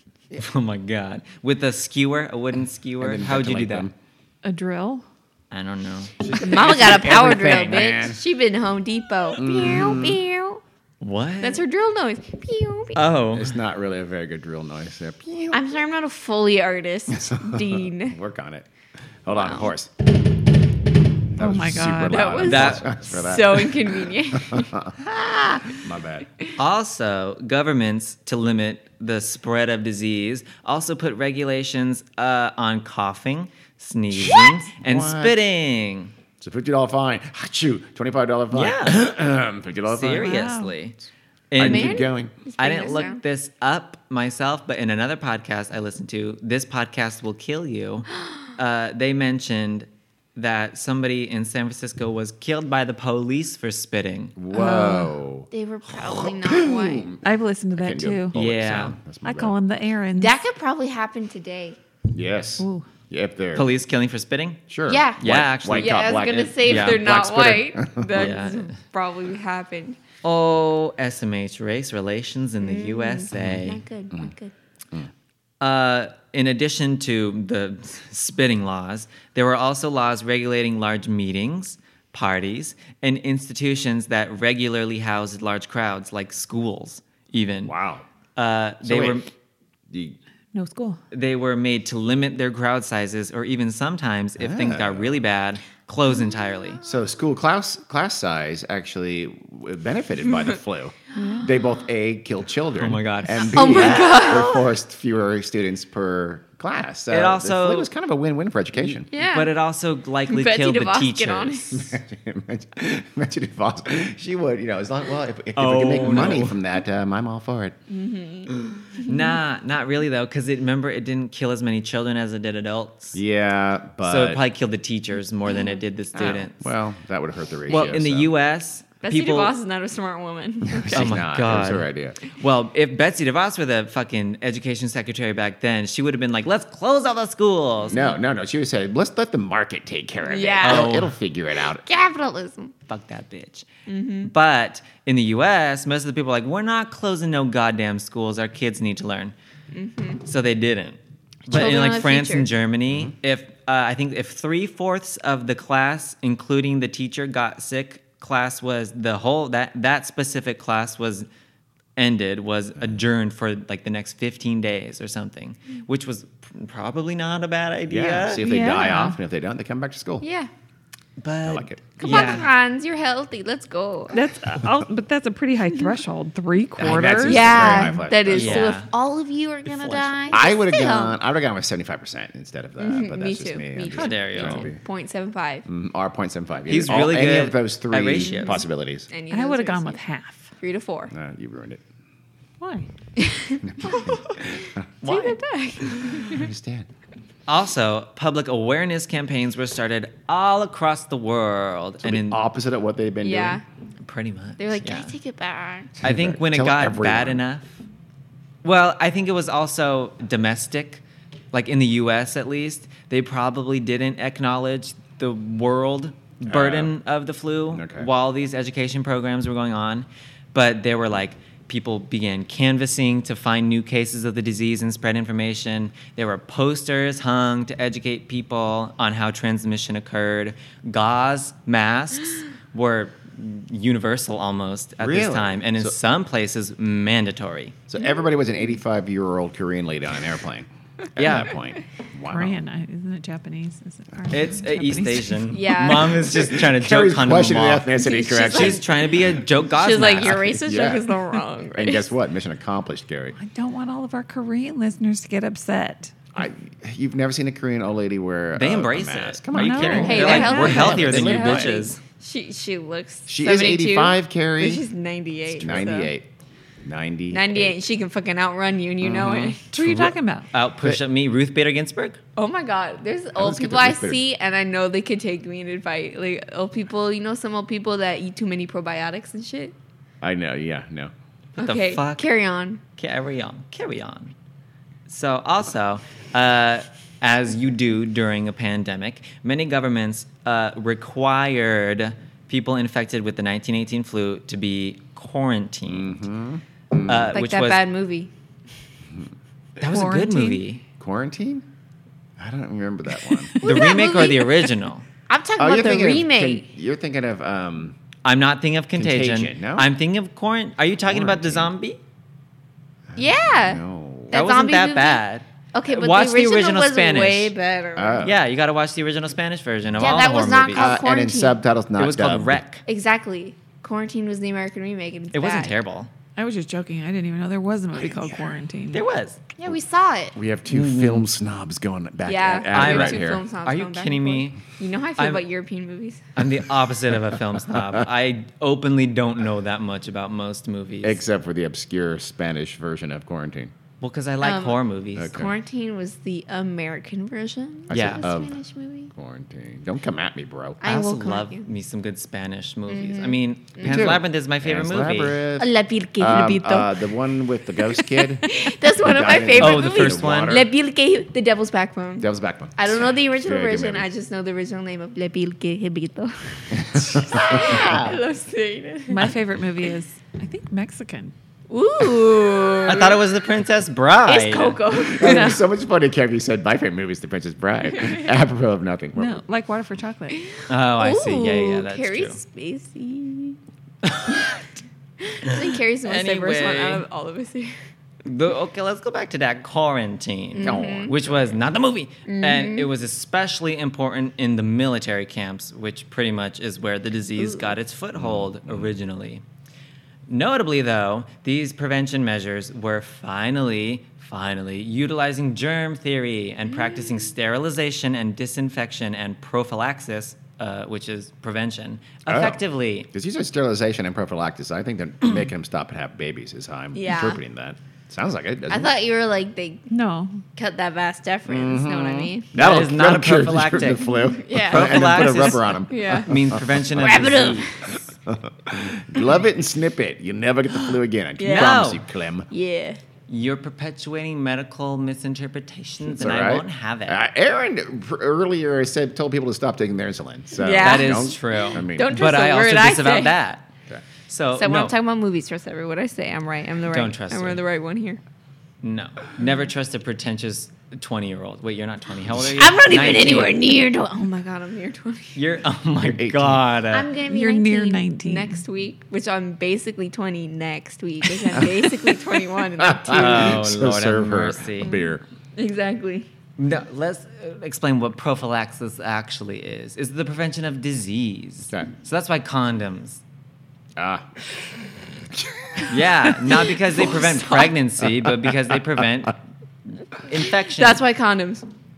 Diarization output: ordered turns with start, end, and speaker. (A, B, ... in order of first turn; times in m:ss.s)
0:00.3-0:03.9 A
0:03.0-0:03.9 B
0:04.4-0:05.0 C
0:05.5-0:07.9 A
0:06.2-0:08.2 B
0:06.4-0:10.6 D
0:09.4-0:10.2 B
0:11.0-0:11.6 A
0:11.4-0:13.0 D
0:13.0-0:13.5 A
0:13.3-0:15.6 B
0:15.5-0:18.2 D
0:17.1-0:18.7 B
0:19.2-0:19.9 B
0:19.3-0:19.7 D
0:21.3-0:26.3 B
0:21.4-0:22.4 C
0:22.1-0:24.7 D
0:22.4-0:23.0 A
0:26.6-0:36.1 A
0:34.1-0:35.4 B
0:36.4-0:40.4 B
0:38.5-0:39.0 A
0:39.9-0:41.0 A
0:40.2-0:40.7 C
0:41.5-0:42.1 A
0:41.6-0:42.3 B
0:41.6-0:43.2 D
0:42.6-0:54.3 A
0:54.4-0:57.2 B
0:54.5-0:55.1 C
0:55.5-0:57.1 D
0:57.2-0:58.3 C
0:57.8-0:59.6 B
0:58.3-0:59.0 A
0:59.2-1:00.4 C
1:00.2-1:01.8 D
1:02.1-1:03.7 B
1:02.6-1:02.9 C
1:03.5-1:04.6 A
1:04.7-1:08.3 B
1:04.9-1:10.0 D
1:05.2-1:07.0 A
1:08.1-1:08.7 A
1:10.2-1:13.8 A
1:12.6-1:14.5 D
1:13.3-1:14.3 B
1:15.6-1:27.7 A
1:27.6-1:28.0 B
1:28.4-1:29.3 A
1:28.8-1:29.2 B
1:29.9-1:30.2 B
1:30.5-1:31.0 C
1:31.1-1:36.8 A
1:34.4-1:35.2 B
1:36.2-1:36.8 D
1:36.8-1:49.1 B
1:41.2-1:41.5 C
1:42.8-1:44.2 A
1:43.5-1:44.7 D
1:47.1-1:47.9 A
1:48.8-1:51.8 A
1:49.1-1:49.5 D
1:50.3-1:51.9 D
1:51.7-1:57.8 B
1:55.5-1:56.6 A
1:57.9-1:59.3 D
1:59.0-2:03.2 A
2:03.1-2:04.4 B
2:04.0-2:06.7 A
2:06.1-2:08.3 B
2:07.7-2:09.5 A
2:09.0-2:11.1 D
2:10.6-2:12.2 B
2:10.9-2:18.0 A
2:17.9-2:21.8 B
2:20.2-2:20.9 D
2:20.6-2:21.1 A
2:21.8-2:22.7 D
2:22.9-2:23.7 A
2:23.9-2:24.3 D
2:24.2-2:29.3 A
2:29.7-2:30.2 D
2:30.2-2:41.3 A
2:31.5-2:32.5 D
2:32.9-2:33.1 B
2:42.0-2:48.5 A
2:47.9-2:50.2 B
2:48.4-2:49.2 C
2:50.2-2:50.5 D
2:51.2-2:52.5 A
2:51.4-2:52.0 B
2:52.0-2:54.2 D
2:54.1-2:58.0 C
2:56.8-2:58.8 B
2:57.2-3:01.2 D
2:58.3-2:58.9 A
2:59.7-3:00.2 A
3:00.3-3:04.8 B
3:02.8-3:05.6 D
3:03.9-3:04.7 A
3:05.6-3:09.1 B
3:06.7-3:08.6 A
3:08.2-3:10.0 D
3:09.3-3:10.5 C
3:10.6-3:11.1 D
3:11.1-3:11.8 B
3:12.6-3:12.9 C
3:13.2-3:14.4 D
3:13.6-3:14.8 B
3:15.0-3:15.4 A
3:15.0-3:16.4 D
3:16.1-3:16.9 B
3:17.5-3:22.4 A
3:22.0-3:23.6 B
3:23.2-3:23.6 D
3:24.0-3:25.1 A
3:24.6-3:26.0 D
3:26.0-3:27.4 B
3:26.0-3:27.8 A
3:28.6-3:57.8 A
3:36.5-3:36.9 B
3:37.7-3:38.1 B
3:55.0-3:55.9 B
3:57.9-4:02.6 B
4:01.2-4:01.5 A
4:02.3-4:05.4 C
4:04.3-4:07.9 A
4:05.5-4:06.2 D
4:06.0-4:08.8 B
4:08.0-4:08.8 D
4:08.4-4:10.5 A
4:09.7-4:12.1 D
4:10.2-4:11.1 B
4:11.7-4:13.4 B
4:13.4-4:16.1 C
4:16.3-4:21.9 B
4:18.5-4:22.0 A
4:19.5-4:20.9 C
4:19.9-4:26.1 D
4:23.3-4:24.8 B
4:25.5-4:26.3 B
4:26.8-4:27.7 B
4:27.3-4:29.6 D
4:29.0-4:29.6 B
4:29.7-4:30.5 C
4:29.8-4:32.2 A
4:32.4-4:39.7 D
4:33.4-4:34.2 B
4:40.2-4:41.1 B
4:41.6-4:42.3 A
4:41.6-4:42.8 D
4:43.0-4:44.3 A
4:45.1-4:56.2 A
4:55.9-4:57.4 B
4:57.0-4:57.8 A
4:57.3-4:58.3 D
4:59.8-5:00.8 A
4:59.9-5:00.6 C
5:01.0-5:01.6 B
5:02.4-5:03.5 B
5:03.6-5:04.6 D
5:03.6-5:05.0 A
5:05.3-5:06.6 D
5:05.6-5:08.0 B
5:08.2-5:12.0 A
5:09.0-5:09.9 B
5:11.0-5:11.7 B
5:13.1-5:14.4 B
5:13.2-5:15.2 D
5:14.3-5:17.5 A
5:15.7-5:18.3 D
5:18.0-5:18.4 B
5:18.2-5:21.0 A
5:20.0-5:21.6 D
5:20.7-5:22.6 B
5:22.0-5:22.8 A
5:22.8-5:25.7 D
5:25.3-5:26.1 A
5:26.4-5:29.0 C
5:28.0-5:28.4 B
5:28.9-5:29.4 A
5:29.6-5:30.3 D
5:30.3-5:33.4 B
5:30.7-5:31.3 A
5:32.2-5:36.2 D
5:32.7-5:34.6 A
5:35.2-5:35.4 A
5:36.4-5:41.2 A
5:37.7-5:38.0 B
5:41.0-5:43.7 B
5:44.0-5:45.4 A
5:44.4-5:49.1 D
5:45.2-5:45.5 B
5:47.9-5:48.6 B
5:47.9-5:48.2 A
5:49.1-5:50.8 B
5:50.8-5:51.6 D
5:50.8-5:55.4 A
5:52.9-5:54.1 D
5:53.8-6:00.7 B
5:55.6-5:56.9 D
5:58.4-6:09.3 D
5:59.6-6:00.6 A
6:02.2-6:04.1 B
6:06.7-6:08.2 B
6:09.1-6:11.3 C
6:11.7-6:13.2 D
6:12.8-6:14.8 A
6:14.2-6:15.6 D
6:15.1-6:19.4 B
6:15.2-6:15.6 C
6:19.2-6:20.4 C
6:20.3-6:23.6 D
6:20.7-6:22.4 A
6:24.0-6:24.5 A
6:25.2-6:27.7 D
6:25.5-6:27.0 A
6:28.2-6:39.4 A
6:30.6-6:31.1 D
6:30.6-6:31.6 B
6:32.2-6:32.9 D
6:37.4-6:37.7 D
6:38.2-6:38.9 B
6:40.3-6:53.1 A
6:46.8-6:47.2 D
6:52.3-6:58.9 B
6:56.9-6:57.4 D
6:58.7-6:59.9 D
6:59.9-7:00.4 C
7:00.6-7:02.5 D
7:01.5-7:07.3 B
7:02.5-7:07.9 A
7:04.3-7:06.3 D
7:06.9-7:08.0 D
7:07.9-7:12.5 B
7:11.4-7:11.8 D
7:11.5-7:12.0 A
7:12.5-7:13.0 D
7:13.3-7:17.2 A
7:16.1-7:22.2 B
7:20.6-7:23.3 D
7:20.8-7:23.7 A
7:24.3-7:25.0 A
7:24.6-7:28.2 D
7:26.9-7:27.6 A
7:28.8-7:33.6 A
7:32.4-7:35.4 D
7:35.4-7:37.1 A
7:36.0-7:36.6 B
7:36.9-7:43.6 D
7:37.2-7:38.6 C
7:41.5-7:41.9 B
7:42.8-7:45.2 B
7:43.1-7:45.0 A
7:45.6-7:46.3 D
7:46.6-7:53.2 A
7:54.0-7:54.3 B
7:55.3-7:56.0 B
7:55.9-7:59.4 A
7:56.5-7:57.7 D
7:58.0-7:59.0 B
8:00.1-8:01.0 A
8:00.7-8:01.7 D